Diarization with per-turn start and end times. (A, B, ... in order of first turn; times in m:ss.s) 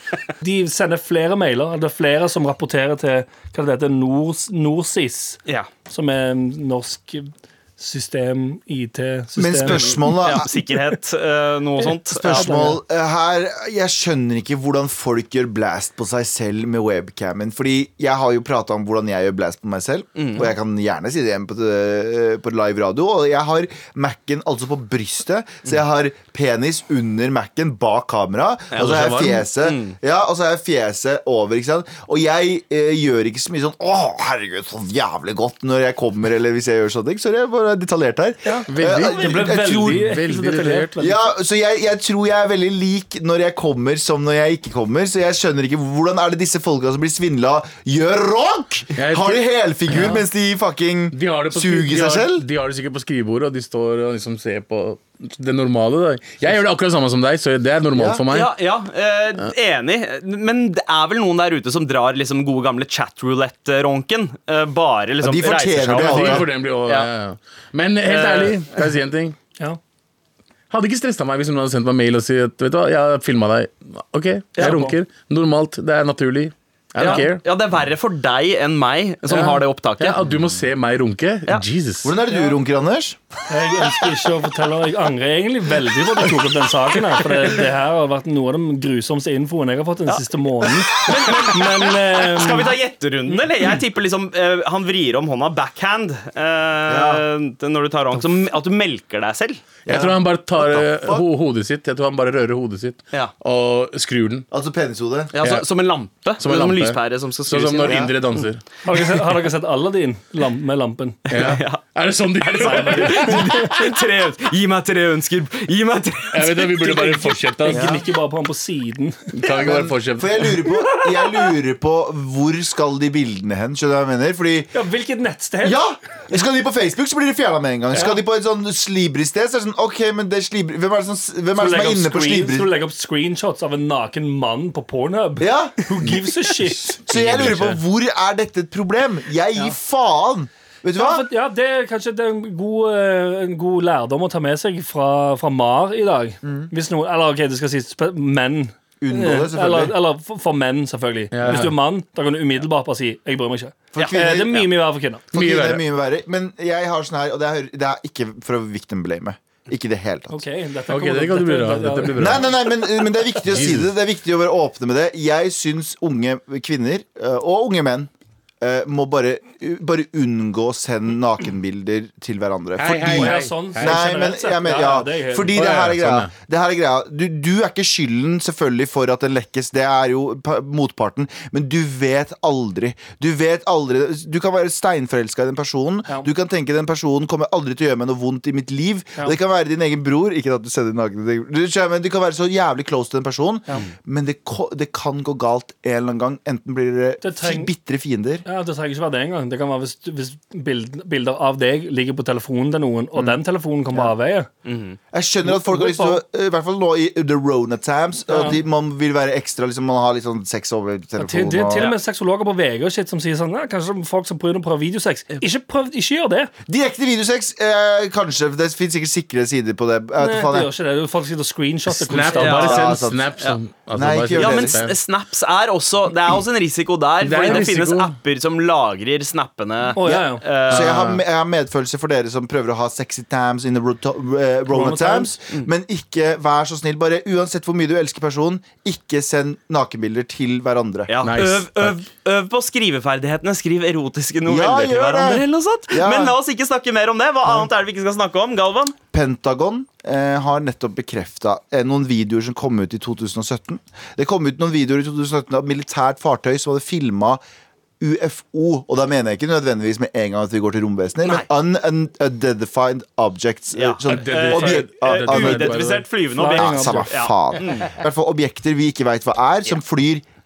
0:00.4-0:10.1 A
0:09.4-0:10.5 B
0:10.2-0:12.6 C
0:12.2-0:40.1 B
0:12.2-0:12.8 A
0:20.2-0:20.5 C
0:28.8-0:29.0 C
0:28.8-0:29.4 D
0:29.6-0:30.0 C
0:38.4-0:41.2 A
0:38.7-0:40.9 D
0:41.0-0:52.4 B
0:49.0-0:50.2 D
0:51.1-0:58.5 D
0:57.9-0:58.2 B
0:58.3-1:07.1 C
1:05.2-1:06.5 B
1:05.9-1:09.4 D
1:08.0-1:08.8 C
1:10.7-1:17.4 D
1:14.6-1:14.9 C
1:14.6-1:14.9 A
1:17.0-1:20.2 C
1:19.3-1:22.1 D
1:22.0-1:23.2 B
1:23.5-1:32.7 A
1:30.9-1:39.6 C
1:36.9-1:37.2 B
1:39.8-1:44.5 D
1:39.9-1:41.3 B
1:44.5-1:45.3 B
1:45.3-1:48.4 C
1:46.4-1:49.2 D
1:48.8-1:51.5 A
1:51.3-1:53.8 D
1:51.3-1:51.8 C
1:52.5-1:56.9 C
1:52.6-1:53.7 A
1:56.3-1:58.0 D
1:56.6-1:59.4 A
1:57.7-1:58.0 B
1:59.3-2:00.5 D
1:59.6-2:04.7 B
2:00.9-2:01.2 A
2:04.7-2:05.8 A
2:05.6-2:12.7 B
2:11.6-2:17.0 A
2:15.4-2:16.2 B
2:16.9-2:17.8 D
2:17.1-2:21.3 B
2:21.0-2:35.3 A
2:26.4-2:26.7 B
2:29.0-2:30.0 B
2:31.3-2:31.8 D
2:34.0-2:34.7 B
2:35.3-2:40.4 B
2:35.3-2:35.8 D
2:40.3-2:42.5 A
2:40.9-2:42.6 D
2:42.2-2:48.1 B
2:43.5-2:43.9 D
2:48.6-3:18.4 B
2:52.8-2:54.2 D
2:53.0-2:55.6 A
2:55.6-2:56.3 D
3:17.2-3:17.7 A
3:18.5-3:24.5 A
3:24.6-3:25.0 C
3:25.1-3:31.9 B
3:25.4-3:26.2 A
3:28.3-3:28.6 A
3:31.2-3:36.5 A
3:36.7-3:40.7 B
3:40.2-3:42.7 A
3:41.9-3:45.0 D
3:42.4-3:43.6 C
3:42.6-3:43.3 B
3:44.0-3:44.8 B
3:44.4-3:50.9 C
3:47.2-3:48.2 D
3:50.0-3:50.4 A
3:50.0-4:01.1 B
3:50.7-3:51.2 D
3:54.7-3:55.4 A
4:01.1-4:09.0 C
4:01.2-4:02.0 D
4:04.4-4:06.3 B
4:09.1-4:17.4 B
4:18.0-4:25.9 B
4:23.8-4:27.9 C
4:24.1-4:26.1 D
4:26.4-4:27.1 A
4:26.5-4:30.2 B